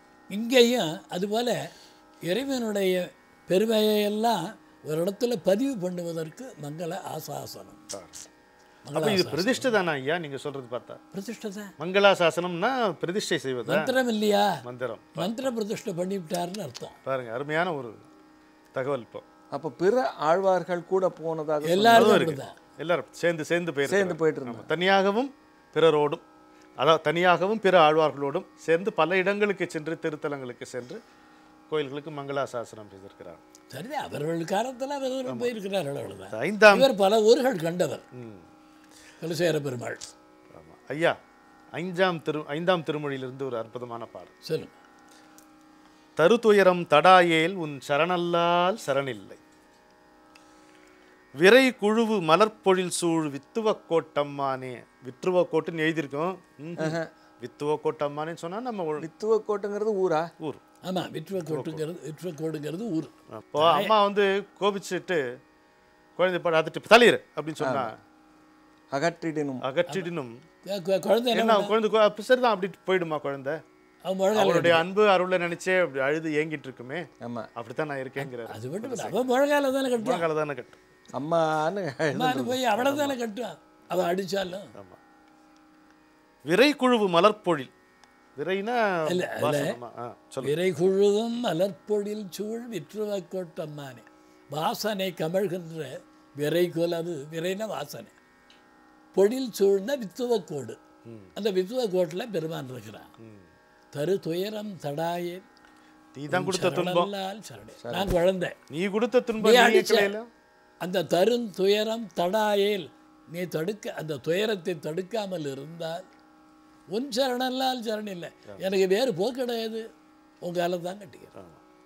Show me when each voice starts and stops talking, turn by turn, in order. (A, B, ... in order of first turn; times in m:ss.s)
0:00.3-0:01.6 A
0:02.3-0:07.8 A
0:08.9-0:09.7 A
0:09.0-0:11.0 B
0:11.1-0:11.7 A
0:11.8-0:13.9 B
0:13.7-0:14.6 A
0:14.6-0:15.5 B
0:15.2-0:17.0 A
0:17.1-0:18.0 B
0:18.8-0:19.2 B
0:19.5-0:22.3 C
0:21.7-0:22.6 A
0:21.9-0:26.2 B
0:23.9-0:24.7 C
0:26.8-0:31.0 B
0:31.7-0:33.4 B
0:33.7-0:38.0 A
0:36.3-0:36.9 B
0:38.2-0:38.4 B
0:39.2-0:40.0 A
0:40.5-0:41.2 B
0:41.8-0:44.3 B
0:44.5-0:44.7 A
0:46.2-0:49.4 B
0:51.4-0:59.0 B
0:56.8-0:57.1 C
0:59.0-1:00.3 C
1:00.9-1:03.9 A
1:01.5-1:01.8 B
1:03.4-1:05.2 B
1:06.2-1:08.0 B
1:07.6-1:07.9 C
1:08.9-1:10.1 C
1:09.6-1:10.3 B
1:10.7-1:11.7 A
1:11.3-1:13.6 B
1:14.1-1:14.8 A
1:14.4-1:17.1 B
1:17.2-1:17.5 C
1:17.6-1:19.3 B
1:18.2-1:20.3 A
1:20.0-1:20.8 B
1:21.2-1:22.6 C
1:22.2-1:24.7 A
1:22.8-1:23.2 B
1:26.5-1:27.7 B
1:28.4-1:30.5 B
1:29.1-1:29.8 A
1:30.4-1:38.1 A
1:39.2-1:40.8 A
1:41.4-1:43.1 A
1:43.9-1:45.4 A
1:46.2-1:47.1 B
1:46.3-1:48.6 A
1:47.8-1:48.1 C
1:48.7-1:50.3 B
1:49.4-1:50.1 A
1:50.8-1:56.0 A
1:56.9-1:59.8 A
2:00.4-2:01.3 A